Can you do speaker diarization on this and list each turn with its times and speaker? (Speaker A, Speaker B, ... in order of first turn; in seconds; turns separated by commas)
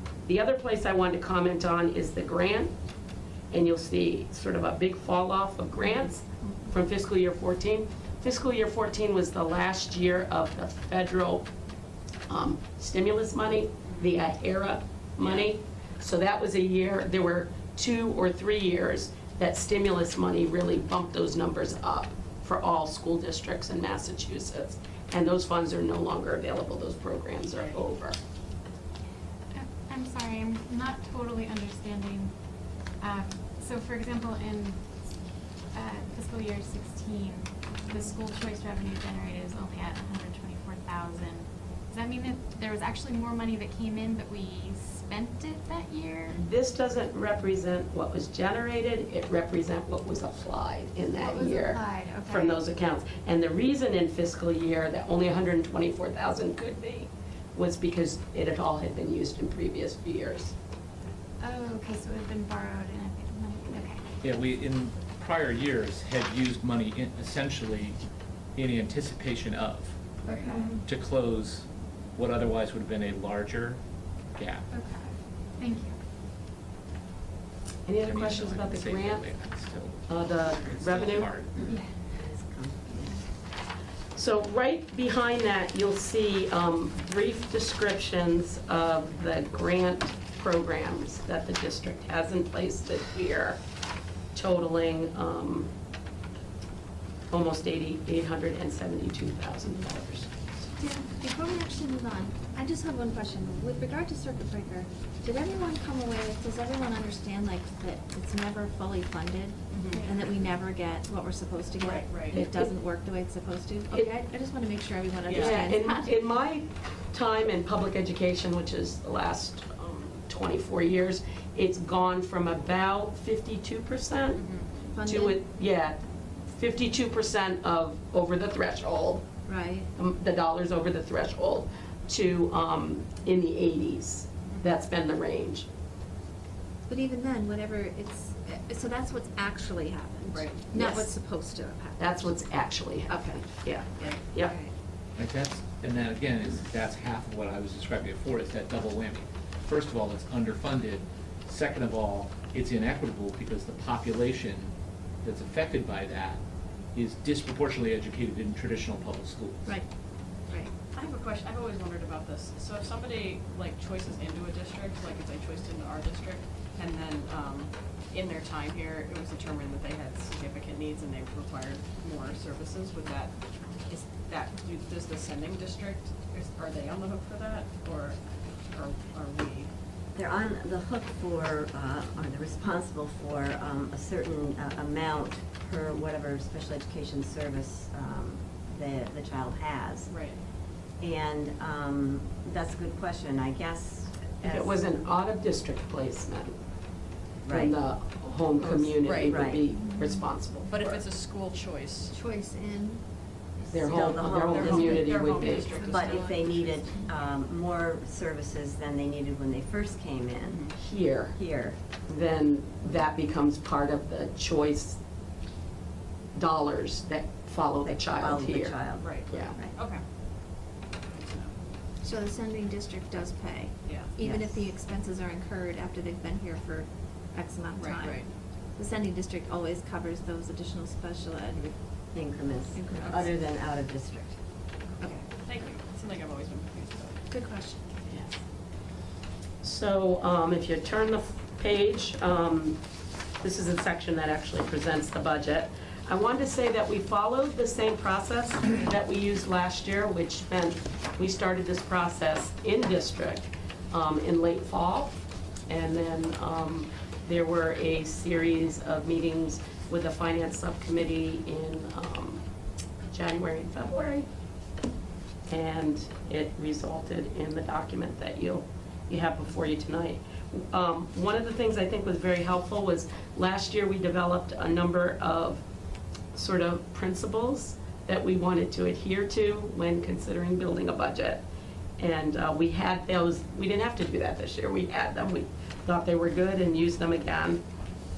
Speaker A: 0.2-2.7, Speaker A: 3.5-11.4, Speaker A: 12.3-28.2, Speaker B: 15.2-15.5, Speaker C: 29.5-32.3, Speaker C: 33.0-34.9, Speaker C: 35.7-46.4, Speaker A: 46.3-60.5, Speaker C: 51.2-52.6, Speaker C: 61.4-64.0, Speaker D: 64.2-68.0, Speaker D: 68.5-70.0, Speaker C: 70.3-70.8, Speaker D: 70.8-73.8, Speaker D: 74.3-74.6, Speaker C: 74.7-76.0, Speaker A: 77.8-79.3, Speaker D: 78.0-81.7, Speaker A: 80.1-81.5, Speaker E: 82.1-83.2, Speaker A: 84.1-93.6, Speaker A: 94.3-95.7, Speaker A: 97.3-100.3, Speaker F: 100.8-116.2, Speaker B: 109.7-110.1, Speaker B: 111.8-112.4, Speaker A: 112.3-112.7, Speaker B: 115.2-115.7, Speaker A: 115.3-124.4, Speaker B: 124.3-124.7, Speaker F: 124.9-125.4, Speaker A: 125.0-129.2, Speaker F: 129.5-129.9, Speaker A: 129.9-135.7, Speaker F: 136.9-142.4, Speaker B: 140.3-140.6, Speaker A: 140.7-141.1, Speaker A: 142.0-144.5, Speaker F: 143.1-144.7, Speaker D: 145.2-156.4, Speaker D: 156.9-159.7, Speaker F: 160.5-160.7, Speaker B: 160.9-179.7, Speaker E: 180.1-190.3, Speaker B: 190.1-190.4, Speaker E: 191.0-194.8, Speaker A: 194.4-196.6, Speaker E: 197.4-197.8, Speaker A: 197.5-201.0, Speaker B: 198.6-199.4, Speaker E: 199.3-199.7, Speaker B: 200.7-202.1, Speaker F: 202.1-203.0, Speaker F: 203.6-203.9, Speaker A: 203.7-205.8, Speaker E: 203.9-210.7, Speaker B: 204.5-206.8, Speaker C: 205.7-206.2, Speaker B: 210.5-210.7, Speaker A: 210.8-211.3, Speaker E: 211.3-211.8, Speaker A: 212.1-215.0, Speaker A: 216.3-219.6, Speaker E: 217.8-219.2, Speaker B: 219.0-220.0, Speaker B: 221.1-221.5, Speaker F: 222.0-228.2, Speaker B: 223.8-224.1, Speaker E: 224.2-224.7, Speaker B: 227.8-228.3, Speaker F: 228.8-231.7, Speaker E: 232.1-234.3, Speaker F: 232.7-233.3, Speaker B: 232.9-233.3, Speaker B: 235.4-237.2, Speaker F: 237.3-237.8, Speaker A: 239.6-242.8, Speaker A: 243.4-262.4, Speaker A: 263.1-264.3, Speaker A: 265.5-275.6, Speaker A: 276.3-281.4, Speaker A: 282.0-287.6